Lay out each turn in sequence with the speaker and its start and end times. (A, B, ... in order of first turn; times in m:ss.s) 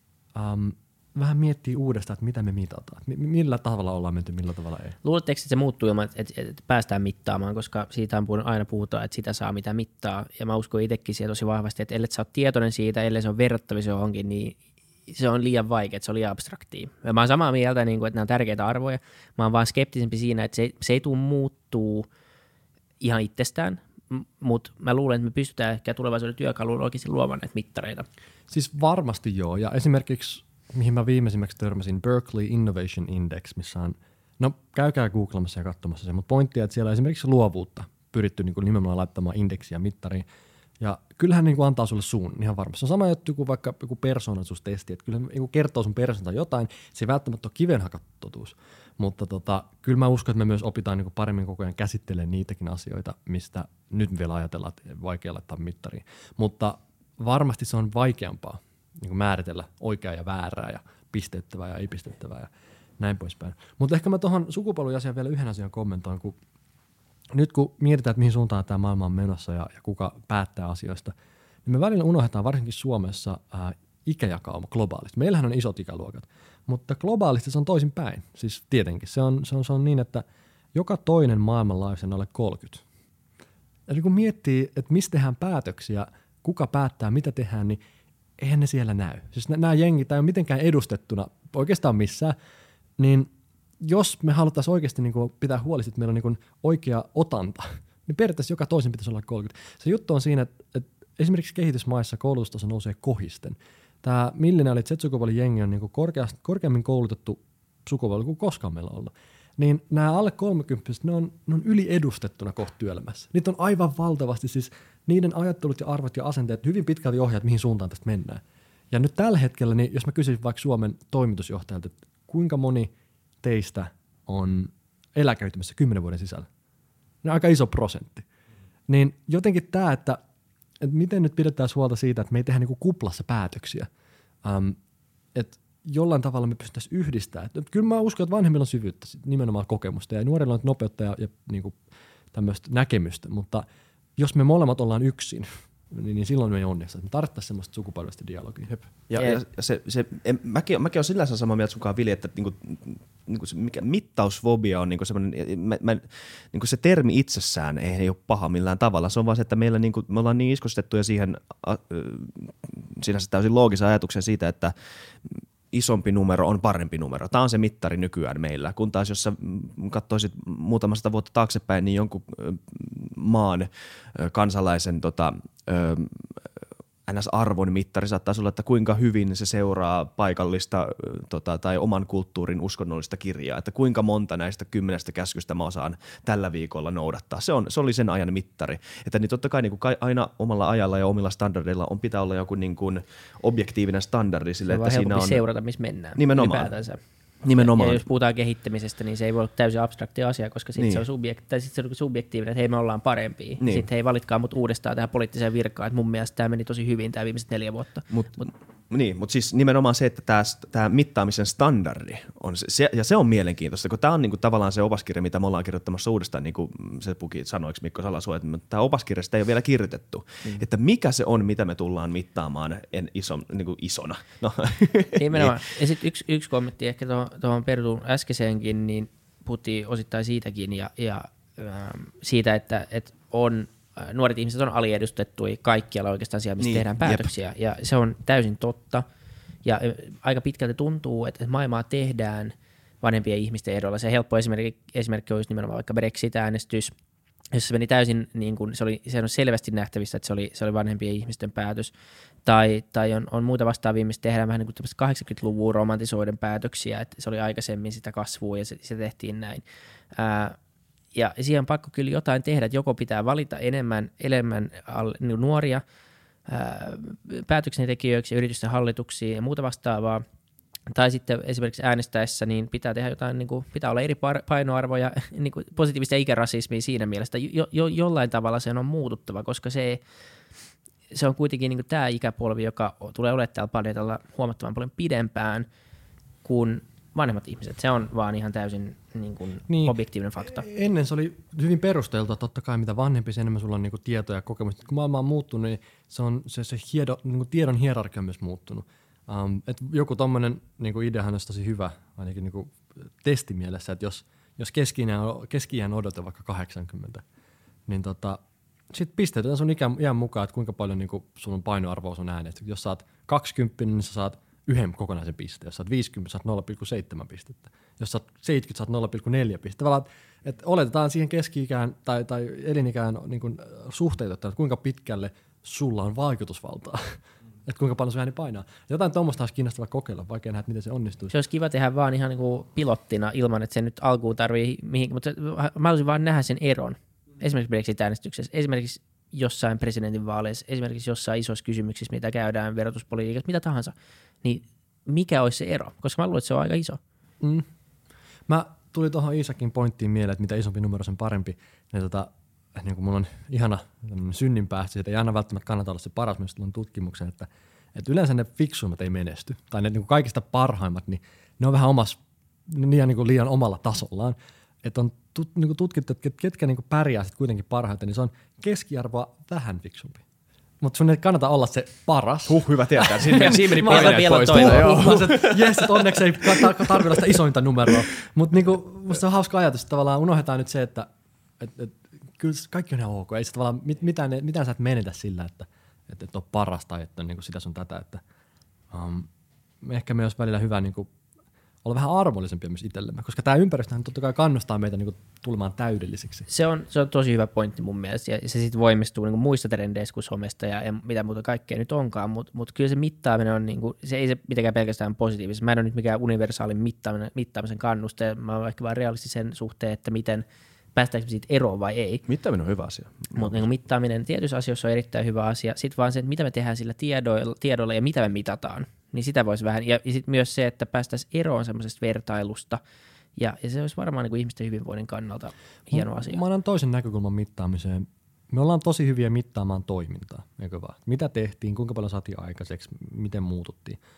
0:00.4-0:05.0 A
0:05.0-0:22.1 B
0:23.0-0:28.1 B
0:28.5-0:40.3 A
0:40.8-1:06.4 A
1:07.3-1:11.1 A
1:11.6-1:20.2 A
1:20.8-1:22.8 A
1:23.9-1:27.8 A
1:28.4-1:32.4 A
1:33.0-1:33.3 A
1:33.8-2:02.9 A
2:03.4-2:06.5 A
2:07.2-2:08.2 A
2:08.9-2:10.2 A
2:10.8-2:13.9 A
2:14.4-2:14.8 A
2:15.4-2:21.8 A
2:22.3-2:23.6 A
2:24.2-2:28.7 A
2:28.7-2:56.4 C
2:57.1-3:15.4 C
3:14.6-3:28.1 B
3:16.2-3:16.7 C
3:17.4-3:18.0 C
3:20.8-3:21.1 C
3:23.6-3:23.9 C
3:28.1-3:45.6 C
3:45.2-3:59.0 B
3:56.6-3:57.3 C
3:59.6-4:06.9 B
4:07.5-4:11.9 B
4:12.4-4:20.6 B
4:21.1-4:25.8 B
4:26.4-4:30.2 B
4:30.9-4:40.0 B
4:41.1-4:45.7 B
4:46.4-4:50.6 B
4:49.7-5:07.2 A
5:07.9-5:08.4 A
5:08.9-5:31.3 A
5:31.3-5:47.0 B
5:47.4-5:47.7 A
5:48.5-6:10.2 A
6:10.8-6:28.2 A
6:12.5-6:17.2 C
6:13.2-6:15.2 B
6:28.9-6:29.3 A
6:29.8-6:31.1 A
6:31.8-6:36.5 A
6:36.5-6:52.2 B
6:52.3-6:53.7 C
6:53.4-7:02.8 B
7:03.4-7:06.4 B
7:05.9-7:14.0 A